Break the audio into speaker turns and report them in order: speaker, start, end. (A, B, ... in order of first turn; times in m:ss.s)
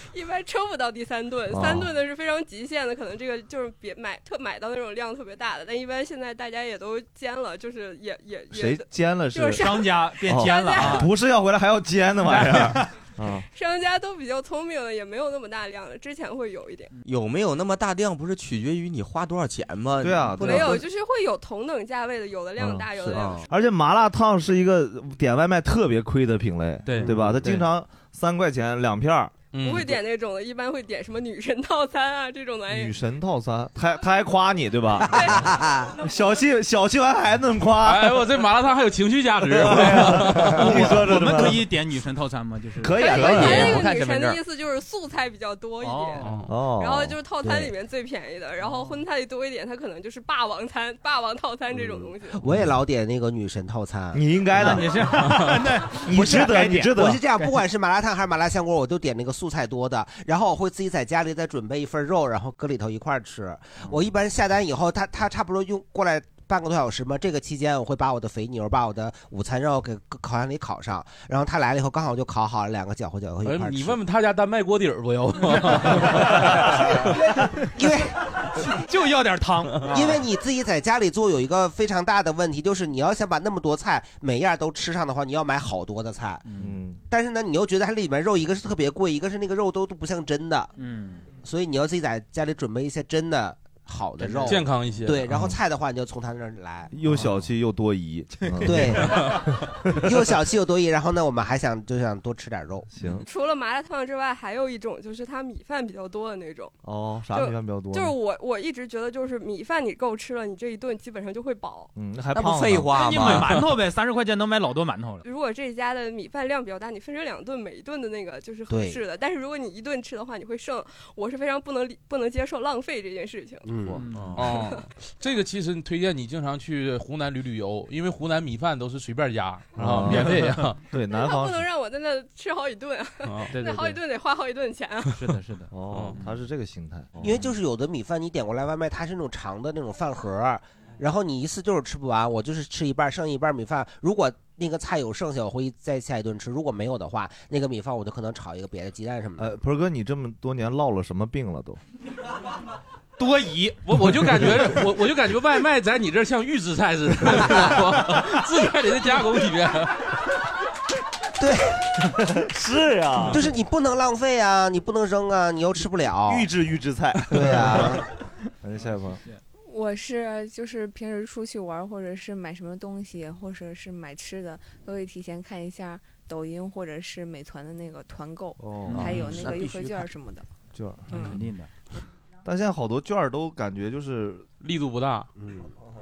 0:00.1-0:11.1 A
0:01.5-0:01.9 B
0:08.5-0:13.4 B
0:09.6-0:11.1 C
0:12.2-0:12.9 C
0:13.5-0:16.9 A
0:17.0-0:20.8 D
0:20.0-0:20.8 B
0:20.4-0:23.5 A
0:22.6-0:29.4 B
0:23.1-0:23.4 D
0:26.8-0:27.1 C
0:29.5-0:29.9 E
0:29.6-0:32.9 A
0:32.7-0:35.4 B
0:35.1-0:35.5 A
0:35.5-0:35.9 F
0:36.0-0:38.3 B
0:37.8-0:40.8 E
0:39.5-0:41.7 B
0:40.0-0:43.6 C
0:42.8-0:43.8 B
0:42.9-0:52.4 A
0:43.2-0:44.4 D
0:43.4-0:43.8 E
0:45.8-0:46.3 C
0:46.4-0:47.2 B
0:47.4-0:47.7 F
0:48.6-0:49.0 C
0:51.7-0:54.8 F
0:54.1-0:54.9 B
0:54.5-0:57.6 C
0:56.0-0:57.2 B
0:56.2-1:14.0 F
1:13.4-1:17.1 E
1:17.7-1:18.1 F
1:18.7-1:20.2 C
1:19.9-1:26.4 F
1:26.4-1:26.8 C
1:26.6-1:27.0 B
1:27.1-1:30.7 F
1:30.8-1:31.2 C
1:31.4-1:36.9 F
1:34.2-1:34.6 C
1:34.4-1:35.3 E
1:36.9-1:39.3 B
1:38.4-1:39.2 C
1:38.6-1:39.3 F
1:39.9-1:42.9 F
1:42.9-1:43.2 B
1:43.2-1:46.7 A
1:46.8-1:48.1 B
1:47.3-1:51.9 A
1:52.0-1:53.4 B
1:52.3-1:53.6 D
1:52.9-1:55.2 C
1:55.2-2:03.7 A
1:58.7-1:59.0 F
2:03.6-2:04.0 F
2:04.0-2:04.4 C
2:04.3-2:10.8 E
2:04.4-2:04.9 A
2:09.8-2:11.7 B
2:10.0-2:10.6 C
2:11.1-2:15.2 A
2:13.2-2:13.5 E
2:13.5-2:14.0 C
2:15.2-2:16.3 C
2:15.7-2:17.4 B
2:17.2-2:29.6 F
2:29.4-2:31.8 B
2:33.2-2:34.4 C
2:33.9-2:40.0 E
2:41.4-2:41.8 F
2:42.4-2:43.4 B
2:43.3-2:46.5 F
2:46.3-2:48.0 B
2:47.3-2:48.0 F
2:48.6-2:49.2 B
2:49.6-3:00.4 G
2:58.6-2:59.3 B
2:58.9-2:59.7 C
2:59.2-2:59.7 D
3:00.7-3:01.4 B
3:01.2-3:01.7 C
3:02.4-3:04.5 B
3:04.6-3:05.3 E
3:05.4-3:05.7 F